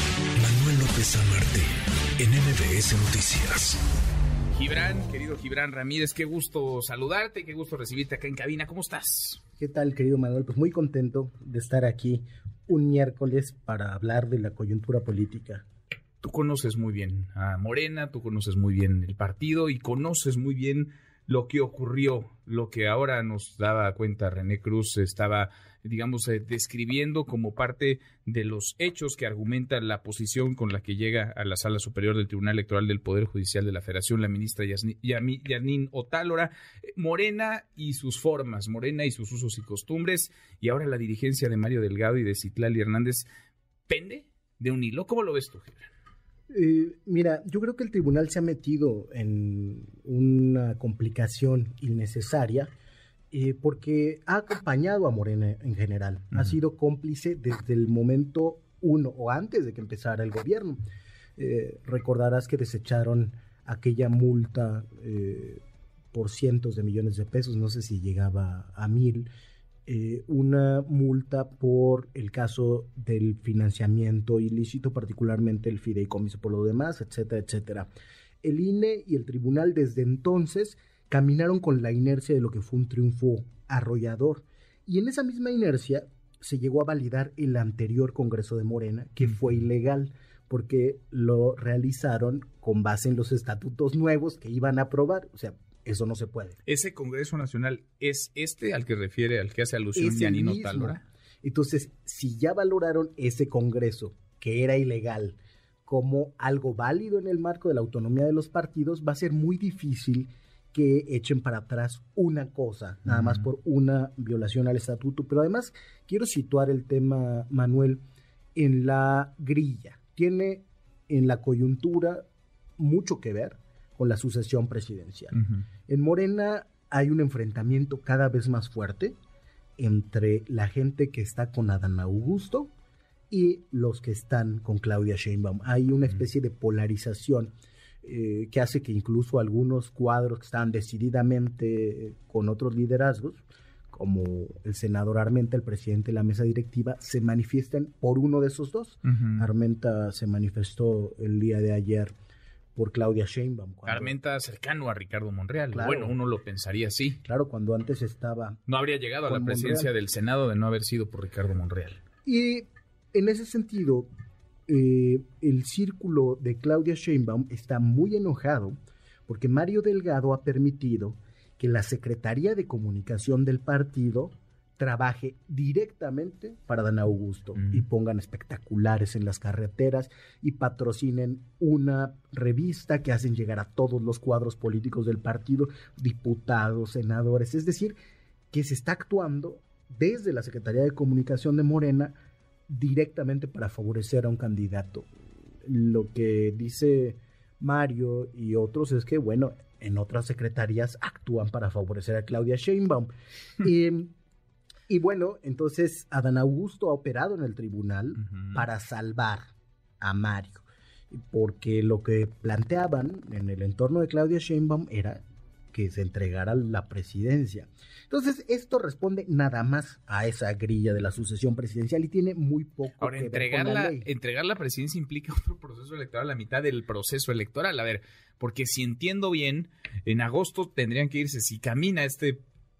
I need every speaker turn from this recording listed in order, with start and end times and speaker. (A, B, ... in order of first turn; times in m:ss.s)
0:00.3-0:03.8 A
0:04.5-0:09.4 B
0:09.6-0:15.6 C
0:16.2-0:43.3 B
0:43.9-0:45.9 B
0:46.5-0:52.7 C
0:53.3-1:00.8 C
1:01.4-1:05.6 C
1:06.1-1:09.3 C
1:09.8-1:17.9 C
1:18.4-1:36.6 C
1:29.2-1:29.5 B
1:36.6-1:41.0 B
1:40.0-1:58.0 C
1:53.1-1:53.4 B
1:58.6-2:02.2 C
2:02.8-2:05.3 C
2:05.3-2:05.7 B
2:05.9-2:09.2 C
2:09.8-2:12.7 C
2:13.3-2:17.5 C
2:18.0-2:32.1 C
2:29.0-2:29.5 B
2:32.7-2:34.2 C
2:33.9-2:37.2 B
2:35.7-2:36.2 C
2:37.2-2:38.6 C
2:38.7-2:42.0 B
2:39.2-2:39.9 C
2:42.2-2:44.1 C
2:44.7-2:48.8 C
2:49.3-3:08.0 C
2:57.6-2:57.8 B
3:08.5-3:12.1 C
3:12.7-3:15.1 C
3:15.6-3:23.1 C
3:23.6-3:24.1 C
3:24.9-3:29.4 C
3:28.2-3:28.7 B
3:30.0-3:35.2 C
3:35.7-3:44.1 C
3:43.0-3:52.4 B